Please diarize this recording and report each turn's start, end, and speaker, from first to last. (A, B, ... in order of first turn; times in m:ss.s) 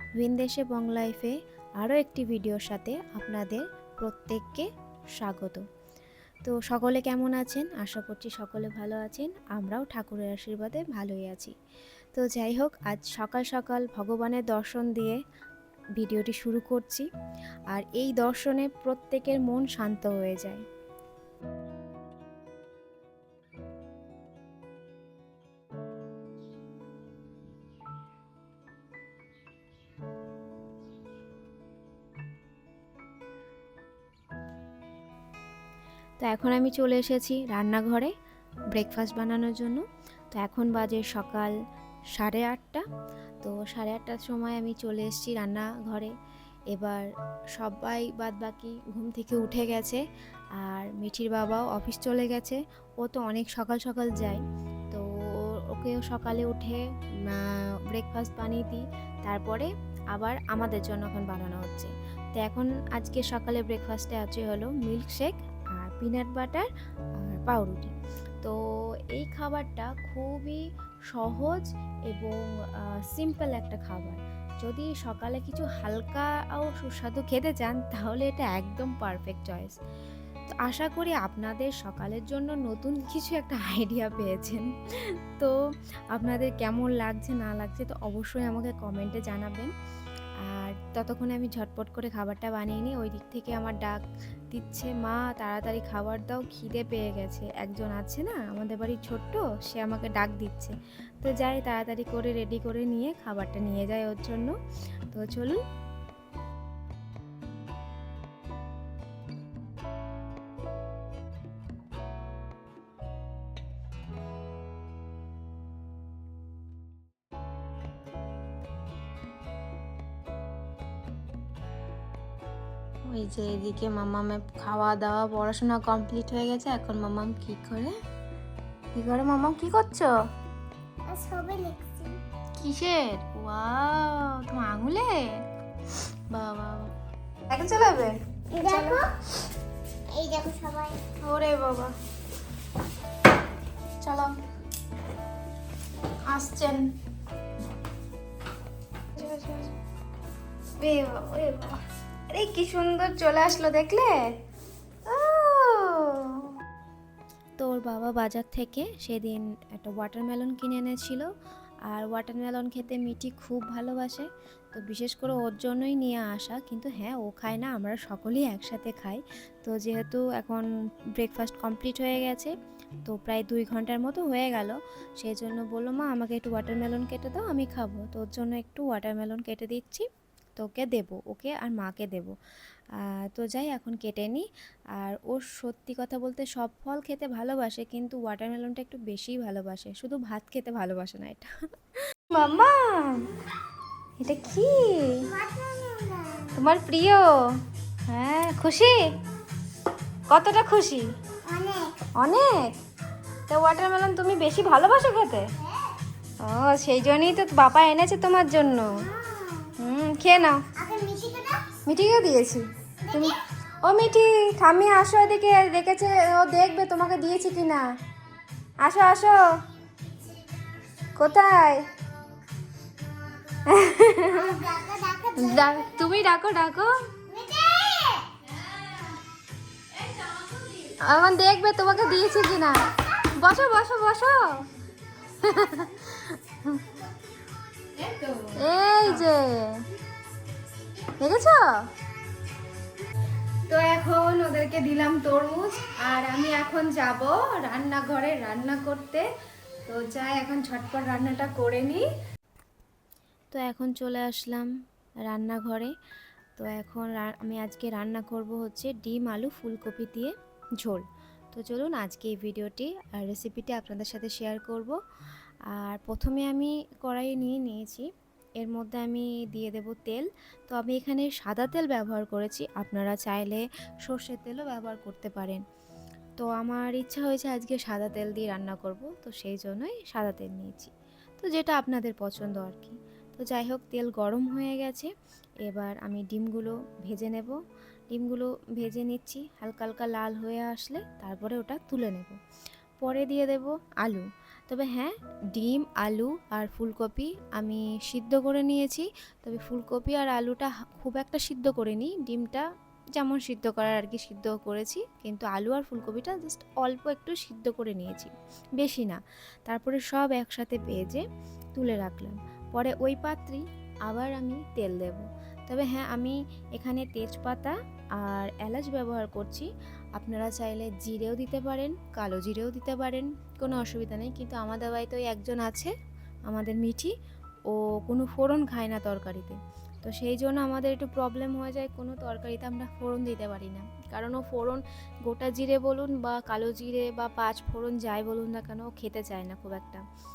0:00.2-0:04.7 A
0:05.2-0:05.6 A
0:06.4-0:11.5 A
0:12.1-0:15.2 A
0:16.0-0:17.1 A
0:17.7-0:20.6 A
0:36.2-0:38.1 A
0:38.7-0:41.5 A
0:42.2-0:42.8 A
0:43.4-0:46.1 A
0:46.7-0:50.0 A
0:50.6-1:06.7 A
1:07.2-1:08.6 A
1:09.1-1:10.6 A
1:11.1-1:19.8 A
1:20.6-1:25.5 A
1:26.1-1:29.7 A
1:30.5-1:34.0 A
1:34.5-1:44.5 A
1:45.1-1:45.6 A
2:03.1-2:08.0 A
2:09.0-2:10.1 A
2:11.1-2:12.2 B
2:12.6-2:15.2 A
2:16.3-2:16.9 A
2:17.5-2:19.0 A
2:18.5-2:19.1 B
2:20.1-2:21.0 B
2:21.2-2:21.9 A
2:24.0-2:24.3 A
2:26.2-2:26.9 A
2:29.1-2:29.7 A
2:30.8-2:34.1 A
2:35.1-2:36.5 A
2:37.6-2:41.3 A
2:41.9-2:50.6 A
2:51.2-2:52.5 A
2:53.1-3:02.3 A
3:03.2-3:04.5 A
3:05.0-3:11.5 A
3:12.1-3:13.3 A
3:14.2-3:15.2 A
3:15.2-3:16.6 B
3:16.5-3:17.2 A
3:18.1-3:19.0 A
3:20.3-3:21.1 A
3:21.4-3:22.0 B
3:22.2-3:22.7 A
3:23.5-3:25.5 A
3:25.6-3:26.0 B
3:26.4-3:29.0 A
3:28.9-3:29.7 B
3:29.8-3:30.6 A
3:30.7-3:31.8 B
3:31.8-3:37.8 A
3:33.0-3:33.4 B
3:38.8-3:39.5 A
3:39.9-3:40.9 B
3:41.2-3:41.9 A
3:42.8-3:43.6 B
3:43.6-3:44.6 A
3:44.2-3:46.1 B
3:45.4-3:47.1 A
3:47.2-3:48.4 B
3:50.9-3:54.7 A
3:52.2-3:53.2 B
3:55.4-3:56.8 A
3:55.4-3:55.9 B
3:56.6-3:58.2 B
3:58.1-3:59.9 A
4:00.4-4:01.1 B
4:01.1-4:01.9 A
4:03.7-4:09.2 A
4:09.9-4:12.1 A
4:13.5-4:14.7 A
4:15.3-4:15.9 A
4:16.6-4:25.0 A
4:25.7-4:35.6 A
4:36.4-4:45.1 A
4:45.6-4:47.6 A
4:48.1-4:52.4 A
4:53.0-5:02.6 A
5:03.2-5:11.2 A
5:11.7-5:25.9 A
5:26.5-5:27.1 A
5:27.7-5:40.0 A